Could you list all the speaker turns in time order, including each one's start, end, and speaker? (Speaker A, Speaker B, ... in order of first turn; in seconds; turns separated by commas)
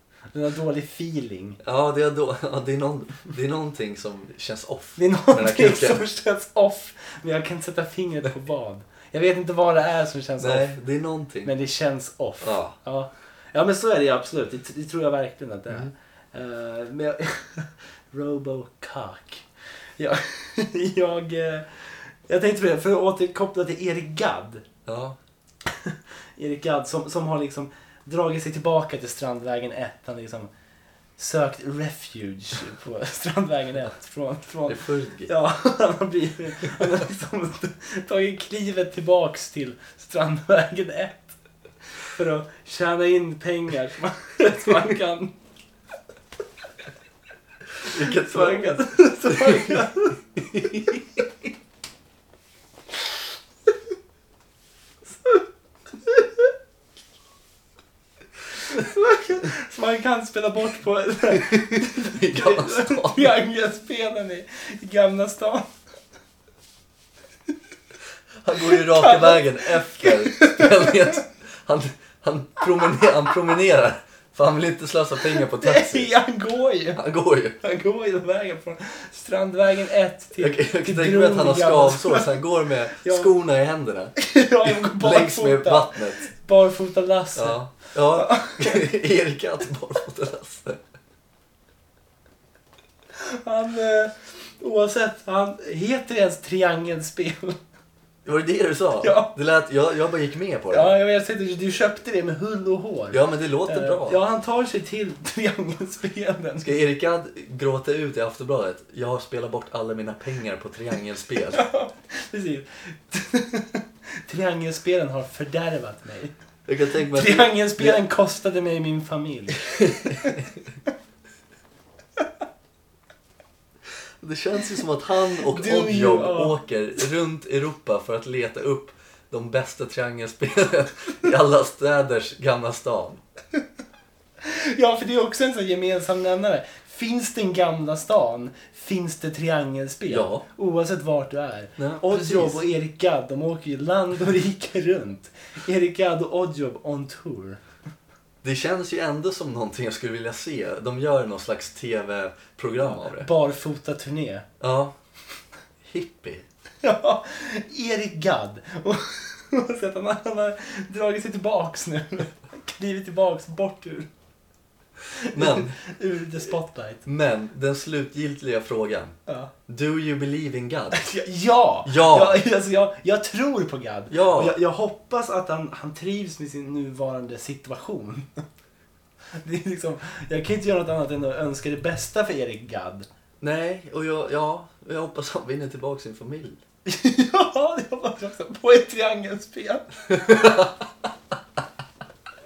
Speaker A: 0.3-1.6, Speaker B: 1.6-6.0, Speaker A: 5.0-10.7, Speaker B: 10.4-11.5, Speaker A: 11.4-19.4, Speaker B: 12.4-12.7, Speaker A: 20.0-24.7, Speaker B: 24.9-25.2, Speaker A: 25.6-30.5, Speaker A: 31.2-41.4, Speaker B: 34.7-35.3, Speaker A: 42.0-45.3, Speaker B: 47.8-49.8, Speaker A: 47.9-51.0, Speaker B: 50.5-51.0, Speaker A: 58.7-65.7, Speaker B: 61.4-63.4, Speaker B: 68.4-76.1, Speaker A: 68.6-71.2, Speaker A: 75.4-77.0, Speaker B: 76.9-77.6, Speaker A: 77.6-83.3, Speaker B: 80.4-86.2, Speaker A: 84.2-88.9, Speaker B: 87.3-90.8, Speaker A: 93.2-97.6, Speaker B: 98.2-101.0, Speaker A: 99.0-99.3, Speaker A: 100.7-106.7, Speaker B: 103.1-104.2, Speaker B: 106.6-111.6, Speaker A: 111.5-116.3, Speaker B: 116.7-118.0, Speaker A: 117.1-120.4, Speaker B: 119.7-120.5, Speaker B: 124.2-133.2, Speaker A: 125.5-126.6, Speaker A: 134.4-147.6, Speaker B: 140.1-140.4, Speaker B: 141.8-142.6, Speaker B: 148.4-153.3, Speaker A: 153.0-154.4, Speaker B: 154.6-154.9, Speaker B: 155.8-156.4, Speaker A: 156.8-164.1, Speaker A: 165.1-167.0, Speaker B: 165.3-165.8, Speaker B: 167.1-169.2, Speaker B: 169.7-171.1, Speaker A: 170.9-178.4, Speaker B: 171.8-172.4, Speaker B: 174.1-174.6, Speaker A: 179.3-183.1, Speaker B: 183.4-186.6, Speaker A: 186.8-189.9, Speaker B: 190.1-190.8